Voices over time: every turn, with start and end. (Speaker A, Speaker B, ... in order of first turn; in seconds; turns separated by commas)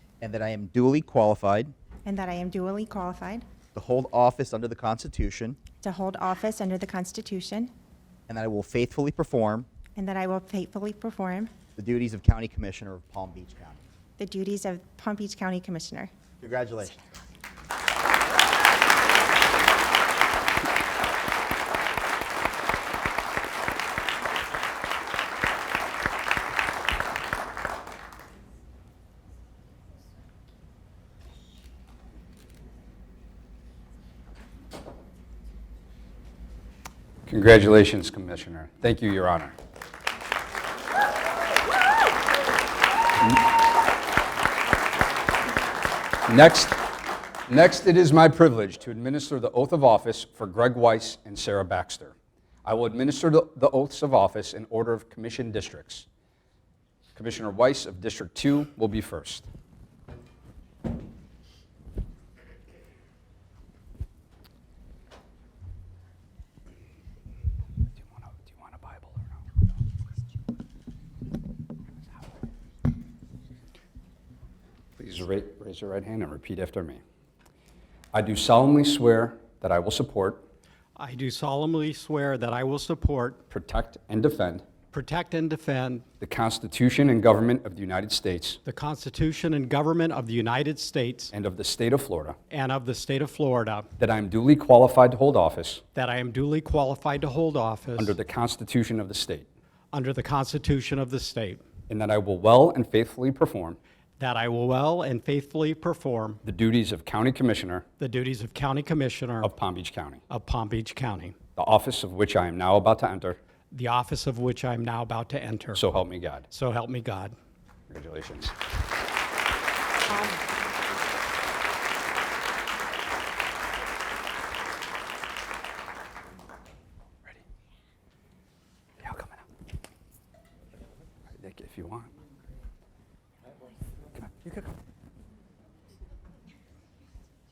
Speaker A: 0.2-1.7, Speaker B: 2.0-3.5, Speaker A: 3.7-5.6, Speaker B: 5.8-7.7, Speaker A: 8.3-9.7, Speaker B: 10.0-11.5, Speaker A: 11.8-13.8, Speaker B: 14.2-16.1, Speaker A: 16.4-17.0, Speaker C: 37.3-39.5, Speaker C: 46.3-46.8, Speaker C: 47.5-56.1, Speaker C: 57.1-59.5, Speaker C: 68.2-69.3, Speaker C: 75.0-77.0, Speaker C: 78.1-80.5, Speaker D: 81.0-83.4, Speaker C: 83.5-84.7, Speaker D: 84.9-86.0, Speaker C: 86.2-88.6, Speaker D: 88.7-91.3, Speaker C: 91.3-92.4, Speaker D: 92.5-93.9, Speaker C: 94.0-95.8, Speaker D: 96.0-98.2, Speaker C: 98.0-99.5, Speaker D: 99.9-101.6, Speaker C: 101.9-103.8, Speaker D: 104.2-106.4, Speaker C: 106.5-107.9, Speaker D: 108.0-109.5, Speaker C: 109.4-110.2, Speaker D: 110.3-111.3, Speaker C: 111.6-113.4, Speaker D: 113.7-115.8, Speaker C: 115.7-116.5, Speaker D: 116.5-117.3, Speaker C: 117.9-118.5, Speaker C: 129.0-129.4, Speaker C: 131.3-132.1, Speaker C: 134.2-134.7